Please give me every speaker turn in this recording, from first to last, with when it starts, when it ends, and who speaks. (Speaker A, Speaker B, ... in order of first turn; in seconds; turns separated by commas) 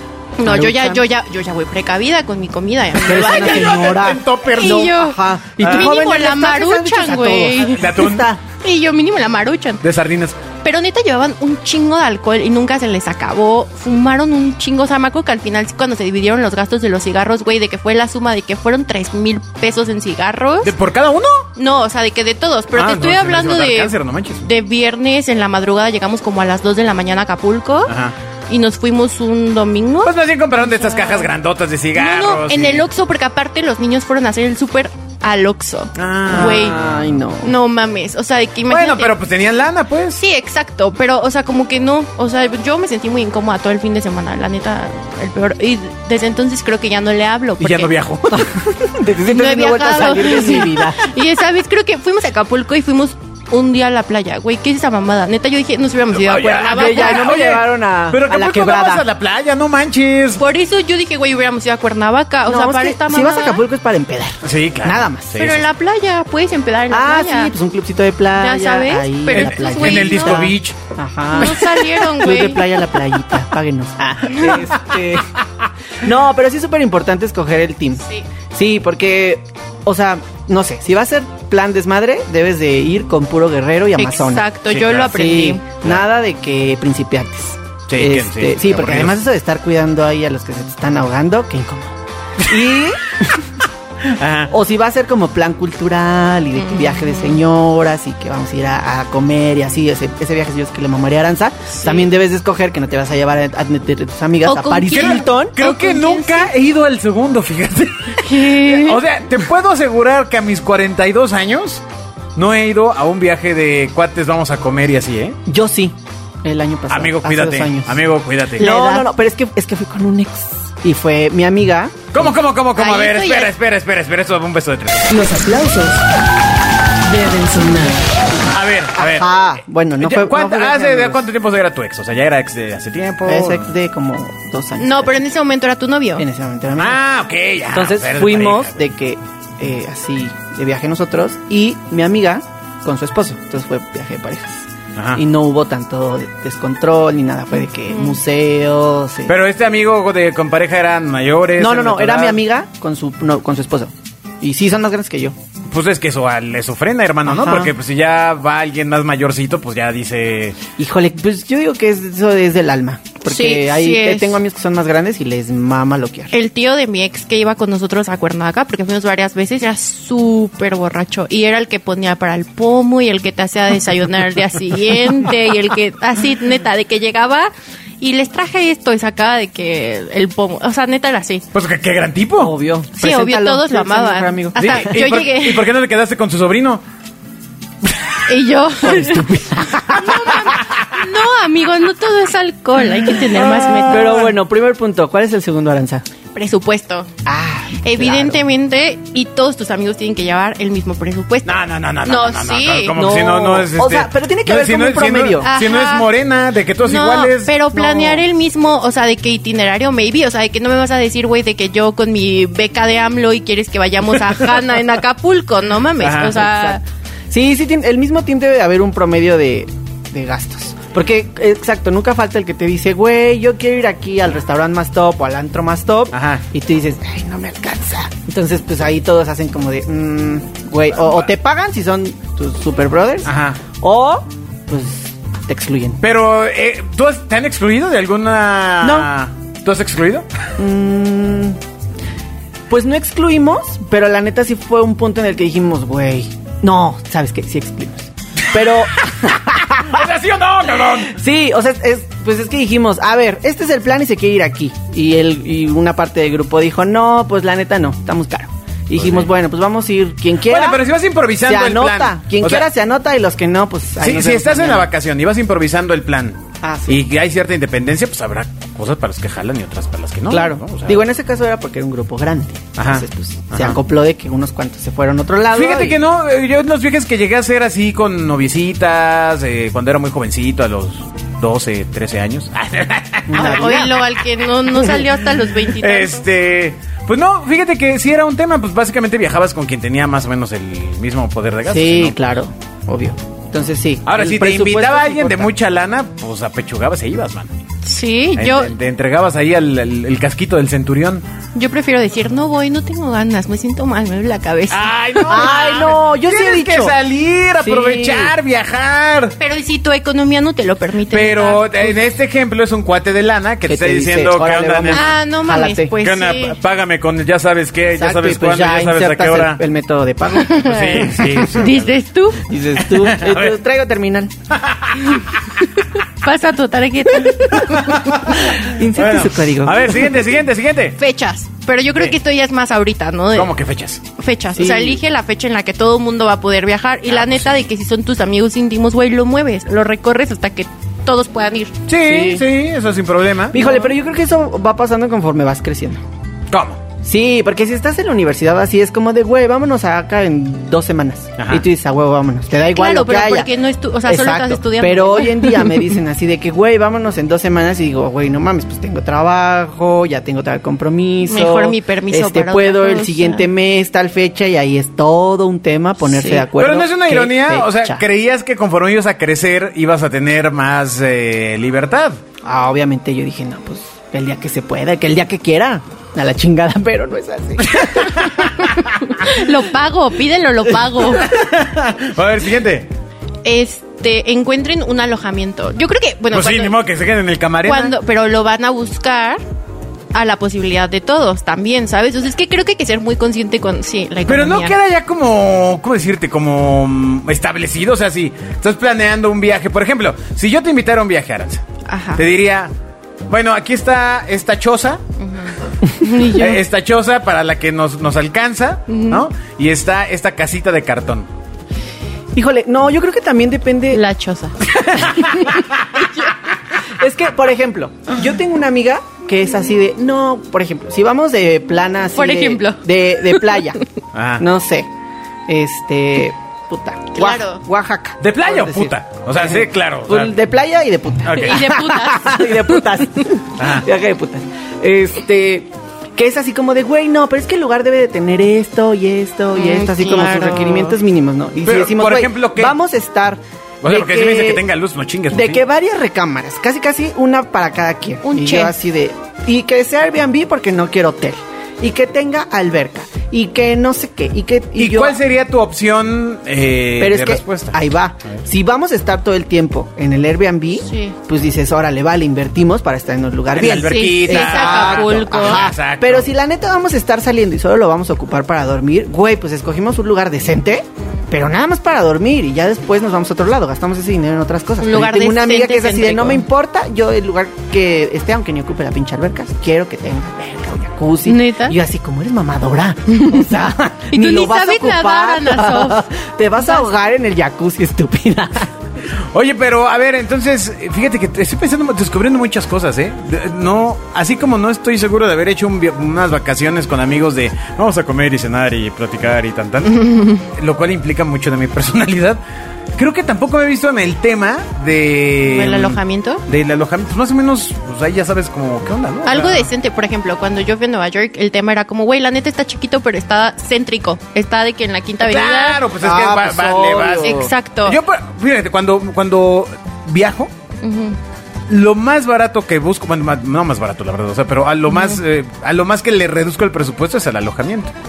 Speaker A: 0.4-4.0, Speaker B: 0.4-1.0, Speaker B: 3.0-8.4, Speaker C: 3.1-4.9, Speaker A: 4.5-8.0, Speaker C: 5.6-6.0, Speaker C: 7.8-8.3, Speaker A: 8.6-9.8, Speaker C: 9.8-10.4, Speaker A: 10.6-20.7, Speaker C: 20.6-21.5, Speaker A: 21.6-27.9, Speaker C: 22.7-24.5, Speaker C: 27.9-28.1, Speaker A: 28.5-31.3, Speaker C: 30.0-32.9, Speaker A: 31.9-36.8, Speaker C: 35.9-37.1, Speaker B: 36.3-37.5, Speaker A: 37.4-39.1, Speaker C: 38.7-40.2, Speaker A: 40.2-47.9, Speaker C: 47.6-48.5, Speaker B: 48.3-51.1, Speaker A: 49.2-57.4, Speaker C: 56.1-60.4, Speaker B: 56.7-59.0, Speaker A: 60.4-63.6, Speaker B: 62.5-65.4, Speaker C: 64.4-65.6, Speaker A: 65.3-67.5, Speaker B: 66.9-75.3, Speaker A: 68.3-70.5, Speaker C: 69.3-70.8, Speaker A: 71.3-72.8, Speaker C: 71.4-71.7, Speaker A: 74.3-74.6, Speaker C: 74.7-75.4, Speaker B: 76.0-84.4, Speaker A: 84.0-85.6, Speaker C: 84.7-85.1, Speaker B: 85.0-93.5, Speaker C: 87.9-89.2, Speaker C: 94.1-94.5, Speaker B: 94.5-105.5, Speaker A: 96.6-97.4, Speaker A: 101.8-102.0, Speaker A: 104.4-106.5, Speaker C: 104.9-111.8, Speaker A: 108.2-109.0, Speaker C: 112.3-115.4, Speaker B: 115.5-118.0, Speaker C: 116.9-118.7, Speaker B: 118.5-122.3, Speaker A: 118.6-119.1, Speaker C: 122.1-125.1, Speaker A: 122.8-123.5, Speaker D: 125.1-126.0, Speaker D: 127.0-128.1, Speaker C: 128.5-129.3, Speaker B: 128.9-131.2, Speaker C: 130.0-133.7, Speaker B: 133.2-135.2, Speaker A: 134.8-136.2, Speaker B: 136.2-137.0, Speaker C: 136.8-138.8, Speaker B: 137.7-149.3, Speaker C: 144.9-145.2, Speaker A: 147.9-148.2, Speaker C: 149.3-152.4, Speaker B: 151.6-155.3, Speaker C: 155.7-160.6, Speaker B: 157.2-157.7, Speaker B: 160.8-166.3, Speaker A: 163.2-164.4, Speaker A: 166.3-181.4, Speaker C: 181.5-182.5, Speaker B: 182.4-184.9, Speaker A: 183.0-185.7, Speaker C: 184.6-186.8, Speaker A: 188.3-194.3, Speaker B: 188.8-190.4, Speaker C: 193.3-194.3, Speaker B: 193.9-196.0, Speaker A: 196.3-197.1, Speaker B: 197.2-198.4, Speaker A: 197.8-202.9, Speaker C: 201.4-207.5, Speaker B: 202.9-205.5, Speaker A: 205.4-206.1, Speaker A: 206.8-216.8, Speaker B: 207.7-208.2, Speaker C: 216.0-216.4, Speaker B: 216.4-216.8, Speaker B: 217.3-236.0, Speaker C: 226.1-226.4, Speaker C: 233.2-233.6, Speaker C: 236.0-240.3, Speaker B: 238.8-239.1, Speaker B: 240.6-241.6, Speaker B: 242.7-250.0, Speaker C: 249.8-251.2, Speaker B: 251.0-260.8, Speaker C: 258.9-259.3, Speaker C: 260.4-262.7, Speaker B: 261.4-264.9, Speaker C: 264.0-271.0, Speaker B: 266.6-267.0, Speaker B: 270.3-276.0, Speaker C: 272.8-273.8, Speaker C: 275.5-284.0, Speaker B: 283.3-284.0, Speaker A: 283.3-286.1, Speaker C: 285.8-292.2, Speaker B: 291.7-295.5, Speaker C: 294.1-297.5, Speaker A: 297.8-298.7, Speaker C: 298.4-301.2, Speaker A: 301.5-305.4, Speaker C: 304.7-309.4, Speaker B: 305.3-306.9, Speaker B: 307.6-308.4, Speaker A: 309.4-311.9, Speaker C: 311.1-315.1, Speaker B: 313.7-315.9, Speaker A: 314.9-316.6, Speaker C: 316.0-319.6, Speaker B: 317.9-321.5, Speaker C: 320.5-321.9, Speaker A: 321.5-322.4, Speaker B: 322.4-324.3, Speaker C: 322.8-323.6, Speaker C: 324.5-325.4, Speaker A: 325.8-327.7, Speaker B: 327.5-330.2, Speaker C: 327.5-331.0, Speaker A: 331.0-333.6, Speaker C: 333.3-334.0, Speaker A: 334.1-341.7, Speaker B: 334.5-335.0, Speaker C: 337.1-337.6, Speaker C: 341.9-343.6, Speaker B: 342.0-342.4, Speaker B: 343.5-346.0, Speaker A: 343.6-343.9, Speaker C: 346.5-346.8, Speaker B: 347.0-368.0, Speaker C: 351.4-351.6, Speaker A: 352.7-355.8, Speaker A: 361.2-363.4, Speaker A: 366.0-366.4, Speaker C: 366.5-372.2, Speaker B: 372.4-378.5, Speaker C: 377.7-378.6, Speaker A: 378.8-381.3, Speaker C: 381.0-382.9, Speaker A: 383.4-386.8, Speaker C: 386.3-387.9, Speaker A: 387.6-389.4, Speaker A: 390.1-394.8, Speaker C: 394.3-401.6, Speaker A: 401.9-402.2, Speaker C: 402.1-402.7, Speaker C: 403.3-405.0, Speaker A: 405.2-406.6, Speaker C: 406.3-411.3, Speaker A: 408.9-409.2, Speaker B: 412.3-414.0, Speaker A: 413.9-414.5, Speaker B: 414.7-415.6, Speaker C: 415.0-415.5, Speaker B: 416.8-423.8, Speaker A: 422.1-423.6, Speaker C: 424.1-424.4, Speaker B: 424.4-424.9, Speaker B: 425.5-444.6, Speaker A: 427.1-427.6, Speaker C: 428.2-430.4, Speaker C: 431.2-431.6, Speaker A: 431.4-432.9, Speaker C: 433.6-433.9, Speaker A: 439.5-441.0, Speaker C: 441.6-442.8, Speaker C: 443.8-445.6, Speaker B: 445.3-455.2, Speaker A: 448.2-448.7, Speaker C: 454.8-457.8, Speaker B: 457.0-488.7, Speaker A: 460.8-461.1, Speaker C: 463.5-466.3, Speaker A: 463.8-465.6, Speaker A: 474.8-476.4, Speaker A: 481.2-481.8, Speaker A: 483.1-483.4, Speaker A: 484.1-486.1, Speaker A: 486.6-486.9, Speaker C: 489.3-502.4, Speaker C: 502.9-509.7, Speaker A: 505.5-506.4, Speaker A: 509.2-515.8, Speaker C: 515.2-520.5, Speaker B: 516.0-517.5, Speaker A: 517.2-518.0, Speaker A: 520.8-521.2, Speaker C: 521.7-527.9, Speaker A: 524.9-525.2